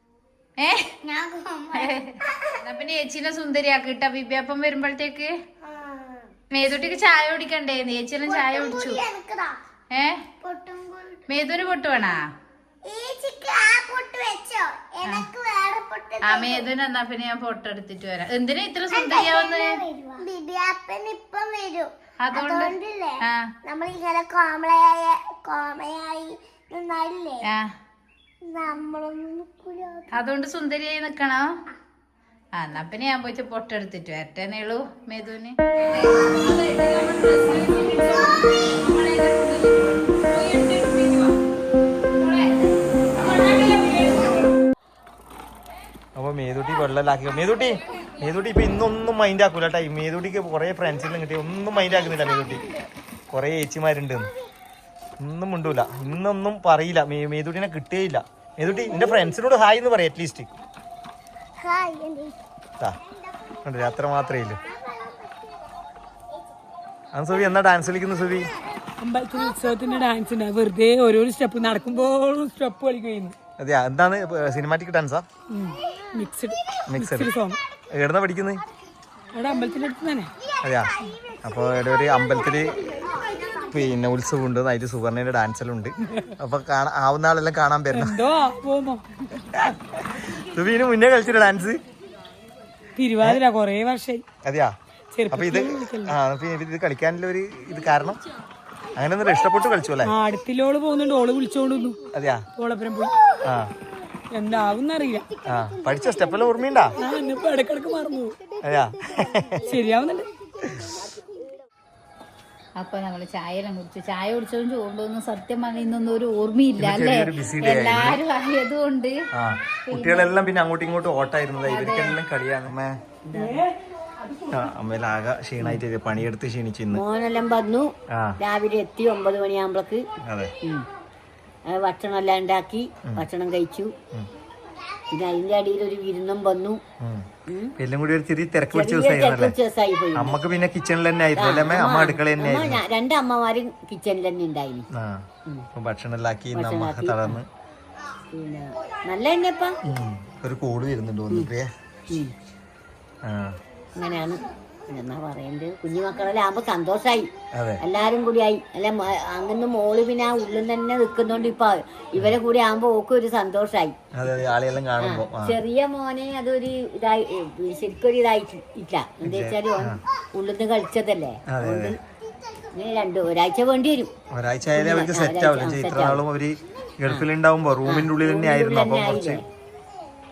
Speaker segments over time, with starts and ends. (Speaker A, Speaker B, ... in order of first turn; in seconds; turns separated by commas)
Speaker A: 0.6-0.9, Speaker B: 1.0-2.6, Speaker A: 1.7-2.1, Speaker A: 2.6-5.3, Speaker B: 5.6-6.3, Speaker A: 6.5-9.0, Speaker B: 8.2-9.6, Speaker A: 9.9-10.2, Speaker B: 10.4-11.3, Speaker A: 11.3-12.2, Speaker B: 12.9-16.7, Speaker A: 15.0-15.3, Speaker A: 16.2-19.9, Speaker B: 18.9-27.4, Speaker A: 22.2-23.5, Speaker B: 28.4-30.1, Speaker A: 30.1-31.5, Speaker A: 32.5-41.0, Speaker A: 42.2-42.5, Speaker A: 43.2-44.2, Speaker C: 46.1-52.6, Speaker B: 51.9-52.9, Speaker C: 53.3-54.3, Speaker C: 55.2-60.5, Speaker B: 58.6-59.3, Speaker B: 61.6-62.4, Speaker C: 63.6-64.6, Speaker B: 64.3-65.7, Speaker C: 67.1-68.5, Speaker D: 69.0-73.3, Speaker C: 73.6-75.2, Speaker D: 75.5-77.6, Speaker B: 75.8-76.1, Speaker C: 76.9-77.3, Speaker C: 77.9-78.6, Speaker D: 79.3-80.3, Speaker C: 80.6-82.9, Speaker B: 81.0-83.9, Speaker C: 83.7-88.2, Speaker D: 87.9-89.0, Speaker C: 89.5-91.8, Speaker D: 93.0-94.2, Speaker C: 94.4-94.7, Speaker D: 95.1-96.2, Speaker C: 95.3-98.2, Speaker C: 99.0-100.1, Speaker D: 100.0-102.0, Speaker C: 102.1-102.4, Speaker D: 102.6-103.1, Speaker C: 103.4-103.7, Speaker D: 104.3-105.3, Speaker C: 105.4-107.0, Speaker D: 106.9-108.4, Speaker C: 108.6-109.7, Speaker D: 109.7-110.3, Speaker C: 110.6-110.9, Speaker A: 112.8-119.1, Speaker C: 116.8-118.2, Speaker C: 119.3-123.0, Speaker A: 119.9-120.3, Speaker A: 121.7-122.1, Speaker E: 123.2-123.6, Speaker D: 123.4-123.7, Speaker D: 124.2-124.5, Speaker C: 124.5-127.0, Speaker E: 126.9-130.1, Speaker C: 128.1-128.4, Speaker C: 130.2-130.5, Speaker E: 131.7-133.9, Speaker E: 135.1-136.8, Speaker E: 137.5-137.7, Speaker C: 137.8-139.5, Speaker E: 138.7-140.4, Speaker C: 140.2-142.8, Speaker E: 141.3-144.8, Speaker C: 144.9-145.2, Speaker C: 145.7-147.5, Speaker E: 146.5-147.4, Speaker E: 148.3-149.8, Speaker C: 149.8-151.7, Speaker C: 153.2-153.5, Speaker E: 153.9-163.9, Speaker C: 157.5-157.8, Speaker C: 164.1-165.6, Speaker E: 165.0-171.9, Speaker C: 169.2-170.0, Speaker C: 171.5-171.9, Speaker E: 172.7-174.1, Speaker C: 174.3-179.4, Speaker E: 174.7-176.2, Speaker E: 177.8-179.4